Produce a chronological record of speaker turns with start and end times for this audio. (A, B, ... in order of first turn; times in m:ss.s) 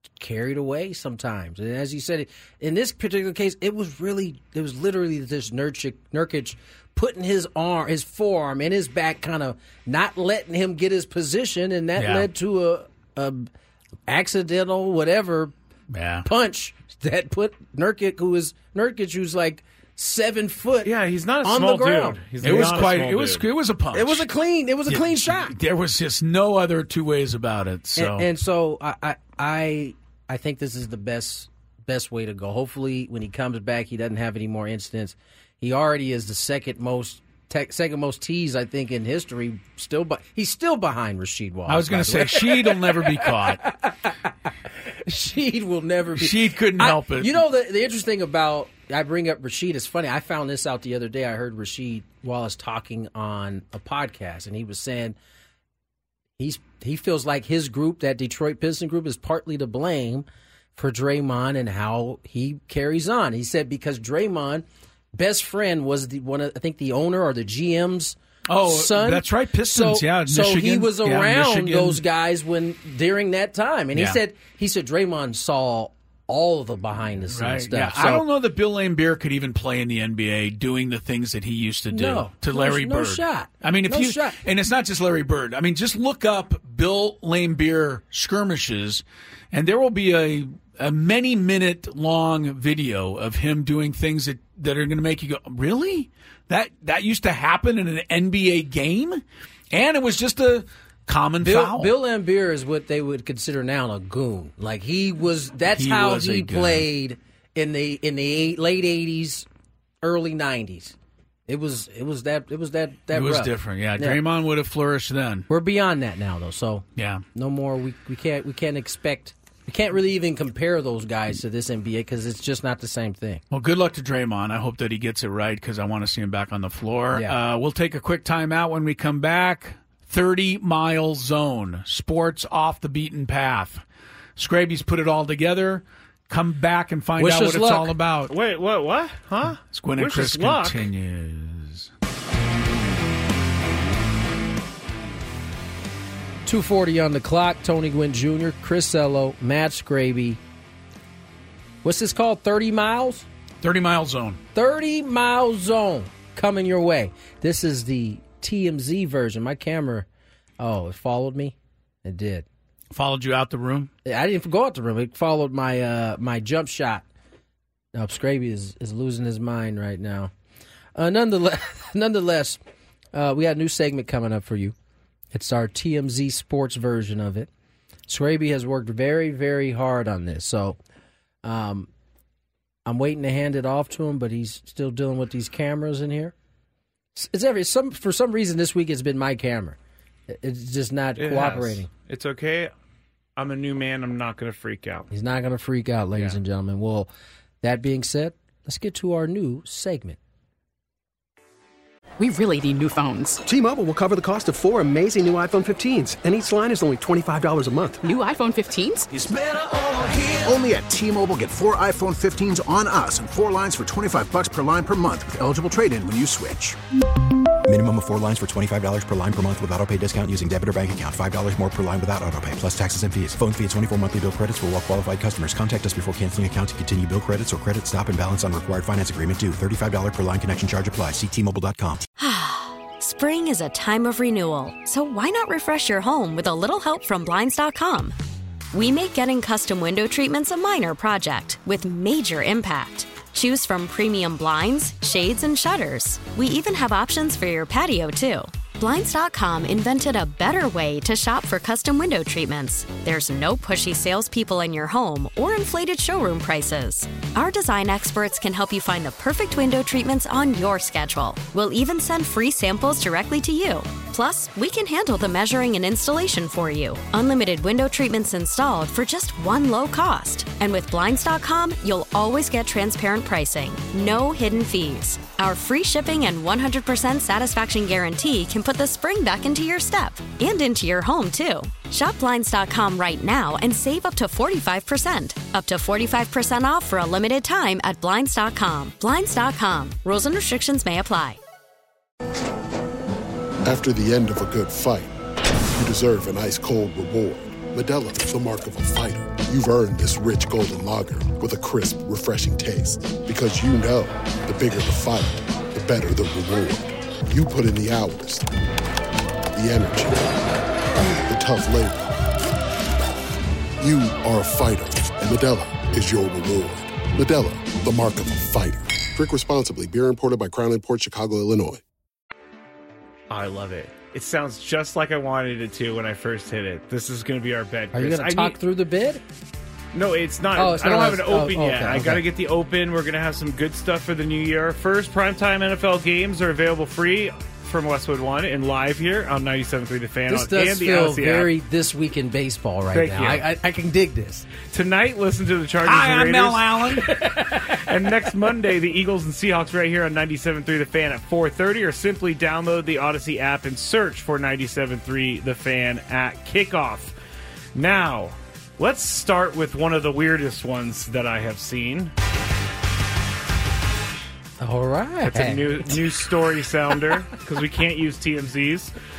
0:00.2-0:13.5 A
0:12.0-0:12.3 B
0:14.1-0:15.5 A
0:15.9-0:16.3 B
0:16.2-0:20.9 A
0:20.8-0:23.4 C
0:21.4-0:22.8 A
0:22.4-0:24.3 B
0:23.9-0:25.6 A
0:24.9-0:28.3 B
0:28.0-0:43.9 A
0:41.7-0:43.6 B
0:45.0-0:55.2 A
0:46.2-0:47.4 B
0:56.4-1:18.2 A
1:08.5-1:12.0 B
1:17.3-1:41.9 B
1:21.9-1:24.4 A
1:41.4-1:49.5 A
1:45.7-1:46.9 B
1:50.0-1:51.0 A
1:51.5-1:54.2 A
1:53.1-1:55.5 B
1:55.5-2:03.4 A
1:57.0-1:57.2 B
2:03.5-2:13.8 B
2:14.4-2:18.3 B
2:17.2-2:17.9 A
2:18.3-2:20.9 C
2:19.7-2:21.9 B
2:26.5-2:30.4 A
2:31.8-2:33.3 A
2:33.6-2:34.4 B
2:34.6-2:40.1 A
2:40.6-2:42.5 A
2:42.9-2:43.9 B
2:44.0-2:47.0 A
2:47.9-2:50.3 A
2:51.0-2:52.6 A
2:53.1-2:54.8 A
2:55.3-2:57.5 A
2:58.1-3:00.8 A
3:01.4-3:01.9 A
3:02.9-3:06.3 A
3:07.2-3:09.8 A
3:10.3-3:11.9 A
3:11.2-3:12.7 C
3:13.4-3:15.1 C
3:15.1-3:17.1 A
3:17.6-3:20.2 A
3:22.2-3:23.4 D
3:23.4-3:28.0 E
3:28.0-3:29.1 D
3:29.1-3:29.4 F
3:29.3-3:30.6 E
3:30.4-3:36.8 F
3:37.7-3:52.0 G
3:52.2-3:58.2 H
3:58.7-4:51.4 H
4:53.6-4:55.1 I
4:55.8-5:08.5 I
5:09.5-5:10.3 I
5:11.2-5:12.2 I
5:13.8-5:21.8 I
5:23.3-5:28.6 C
5:27.9-5:29.2 A
5:29.9-5:41.5 C
5:30.6-5:32.2 A
5:40.3-5:44.5 A
5:42.9-5:43.5 C
5:44.7-5:47.0 C
5:45.8-5:47.1 B
5:47.6-5:57.1 C
5:57.8-6:02.1 C
6:04.6-6:06.1 A
6:05.2-6:08.9 C